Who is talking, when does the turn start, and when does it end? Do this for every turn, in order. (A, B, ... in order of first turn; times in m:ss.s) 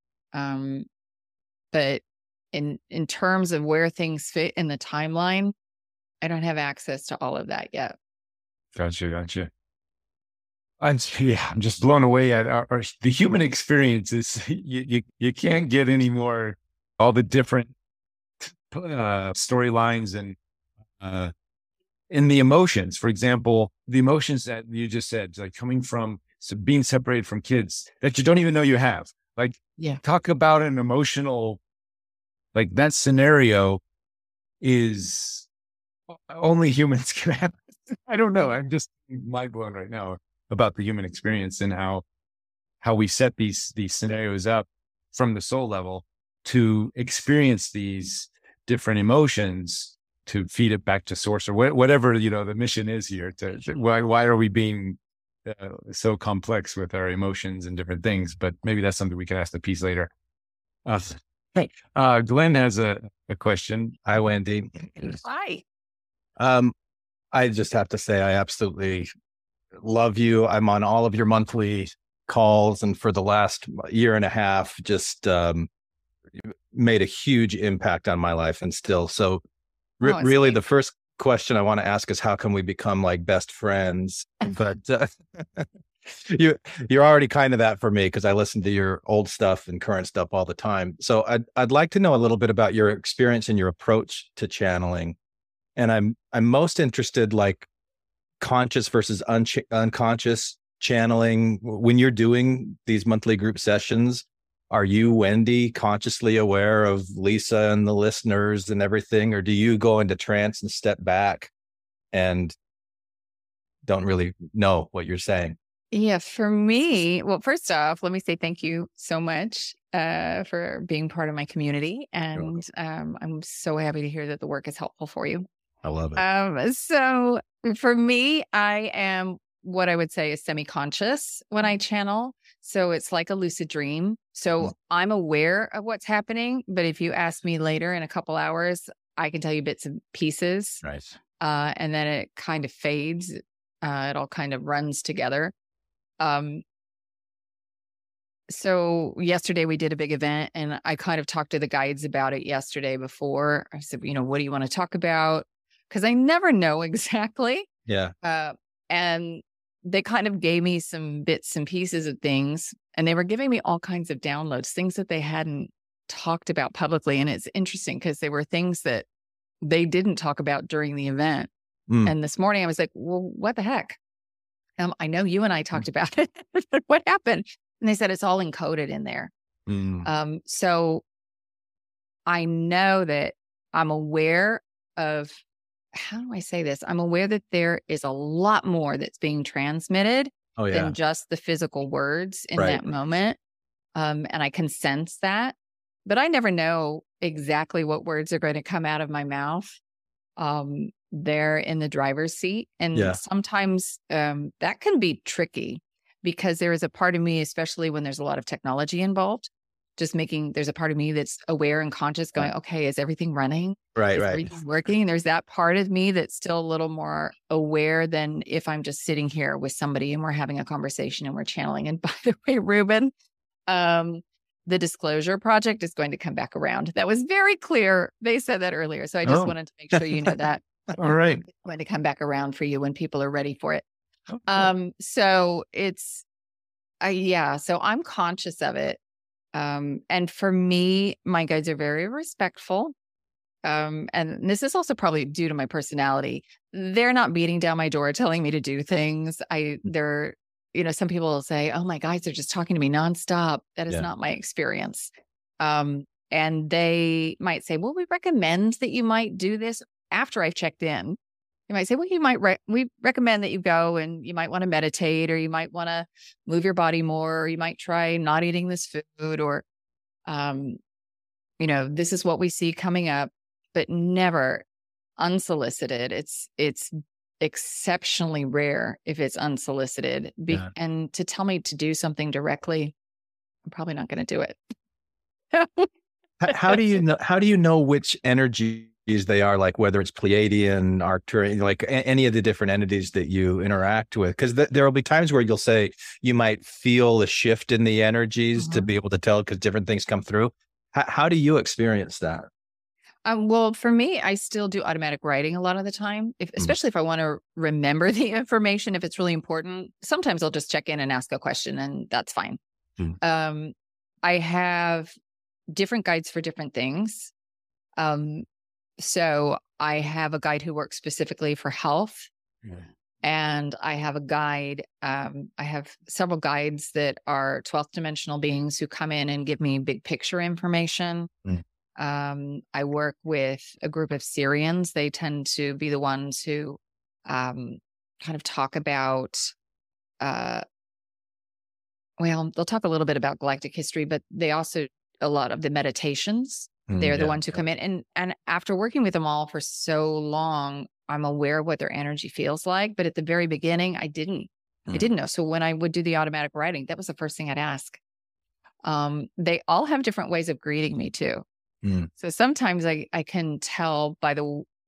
0:00.3-0:00.9 A
0:01.7-0:05.5 A
0:06.2-0:07.9 A
0:08.7-0:09.5 B
0:10.8-0:17.7 B
0:18.4-0:20.4 B
0:21.0-0:21.3 B
0:22.1-0:31.6 B
0:32.5-0:33.8 B
0:34.6-0:35.5 B
0:36.1-0:42.0 B
0:42.8-1:00.1 B
1:00.8-1:05.2 B
1:05.0-1:05.6 A
1:06.4-1:06.7 C
1:07.3-1:09.1 C
1:09.8-1:15.7 C
1:16.4-1:19.4 C
1:20.0-1:35.2 C
1:20.0-1:20.6 A
1:35.8-1:37.7 C
1:38.4-1:51.5 C
1:52.1-1:52.5 C
1:53.8-1:55.6 C
1:55.9-2:05.4 A
2:02.3-2:02.6 C
2:05.8-2:06.2 C
2:06.2-2:20.8 A
2:21.4-2:25.5 A
2:26.2-2:26.6 A
2:28.5-2:37.7 A
2:37.9-2:38.1 C
2:38.2-2:49.0 A
2:49.6-2:51.5 A
2:51.9-2:52.1 C
2:52.0-2:54.0 A
2:54.8-2:59.3 A
2:59.7-3:00.1 C
3:00.0-3:01.0 A
3:02.3-3:05.4 A
3:05.9-3:13.4 A
3:10.6-3:10.9 C
3:12.6-3:12.8 C
3:13.9-3:15.5 A
3:16.0-3:19.8 A
3:20.4-3:43.1 A
3:22.9-3:23.2 C
3:34.0-3:34.5 C
3:43.7-3:50.8 A
3:49.2-3:50.3 B
3:50.9-3:51.4 B
3:51.4-3:53.8 A
3:54.3-3:54.7 B
3:54.4-3:56.2 A
3:57.0-3:59.0 A
3:59.5-4:02.9 A
4:03.6-4:21.2 A
4:21.7-4:29.6 A
4:30.3-4:30.8 A
4:31.6-4:34.6 A
4:35.2-4:42.9 A
4:43.7-4:44.6 A
4:45.5-4:45.9 A
4:46.4-5:02.5 C
4:58.6-4:58.9 A
5:03.2-5:12.6 A
5:13.2-5:15.1 A
5:15.7-5:17.3 A
5:18.0-5:18.4 A
5:19.0-5:22.3 A
5:23.2-5:31.3 A
5:32.0-5:39.5 A
5:40.2-5:40.6 A
5:42.2-5:58.0 A
5:46.9-5:47.6 C
5:58.8-6:01.4 A
6:01.8-6:02.1 C
6:02.2-6:04.6 A